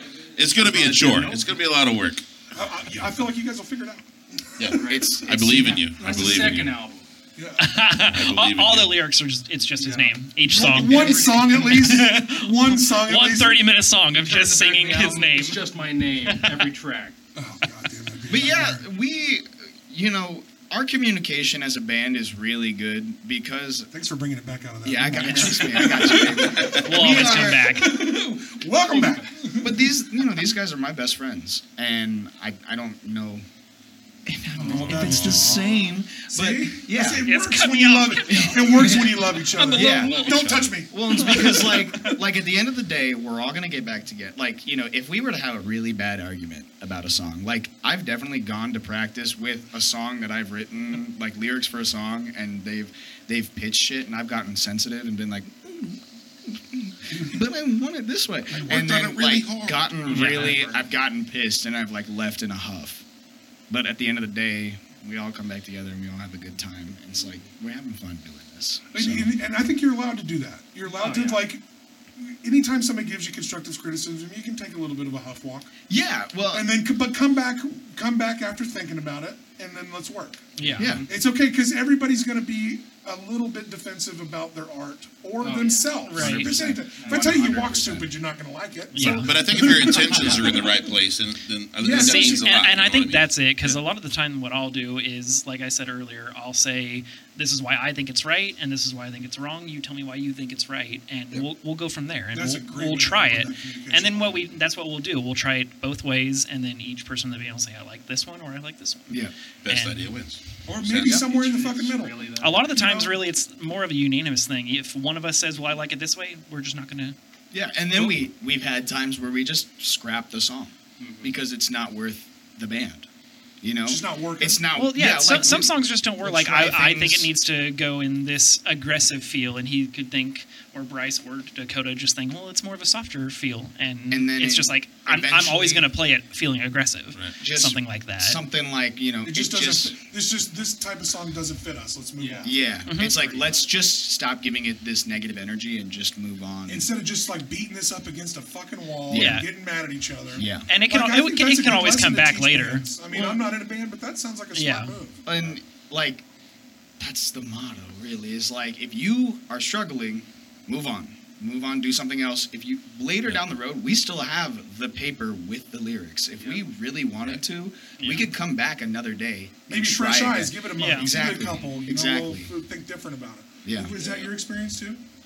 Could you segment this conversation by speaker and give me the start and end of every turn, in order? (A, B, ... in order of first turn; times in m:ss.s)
0:00.4-0:02.2 A
0:00.7-0:01.3 B
0:00.8-0:01.6 C
0:02.5-0:05.0 D
0:04.6-0:06.8 A
0:04.8-0:05.2 C
0:04.8-0:06.0 B
0:05.9-0:07.1 C
0:06.0-0:06.6 D
0:07.4-0:07.7 D
0:07.6-0:15.6 E
0:08.0-0:09.0 A
0:09.8-0:11.9 C
0:10.5-0:13.8 D
0:14.1-0:17.2 C
0:16.3-0:16.6 E
0:17.3-0:18.8 D
0:18.2-0:23.9 B
0:23.9-0:29.9 D
0:24.8-0:27.8 B
0:26.8-0:28.0 E
0:29.6-0:33.4 B
0:34.2-0:37.2 B
0:34.6-0:41.9 D
0:34.7-0:35.7 A
0:37.2-0:38.9 E
0:38.2-0:40.3 B
0:39.5-0:40.2 E
0:39.7-0:40.8 A
0:40.9-1:03.0 B
0:41.1-0:41.7 E
0:58.5-0:59.1 D
0:58.6-1:00.0 A
1:00.0-1:00.9 C
1:00.1-1:00.6 E
1:03.7-1:09.4 B
1:08.9-1:11.6 D
1:10.9-1:11.5 C
1:12.2-1:15.7 D
1:15.9-1:16.7 B
1:16.5-1:20.5 D
1:20.6-1:21.0 E
1:20.7-1:21.0 C
1:20.8-1:21.1 B
1:21.0-1:30.8 D
1:25.4-1:28.1 C
1:26.1-1:28.0 B
1:28.9-1:29.3 E
1:29.0-1:33.3 A
1:31.8-1:32.5 D
1:31.9-1:50.0 E
1:42.3-1:44.6 D
1:49.1-1:49.3 B
1:49.6-1:51.2 A
1:50.6-1:53.2 D
1:51.1-1:52.7 C
1:52.4-1:57.2 E
1:57.5-2:03.1 B
2:01.0-2:01.4 C
2:03.6-2:07.3 B
2:03.8-2:04.6 D
2:04.7-2:18.4 E
2:14.1-2:15.9 B
2:17.4-2:19.9 B
2:19.2-2:22.6 D
2:22.2-2:22.5 C
2:22.4-2:26.9 B
2:22.8-2:23.2 E
2:23.1-2:23.6 C
2:26.7-2:35.2 D
2:29.1-2:29.4 B
2:29.1-2:29.5 E
2:30.3-2:30.7 B
2:30.7-2:32.9 E
2:33.1-2:33.4 B
2:34.5-2:34.9 E
2:35.2-2:36.2 B
2:37.0-2:52.5 B
2:46.4-2:46.6 C
2:48.0-2:48.3 E
2:49.7-2:55.0 D
2:50.8-2:51.1 E
2:53.6-2:54.0 B
2:54.0-2:54.2 A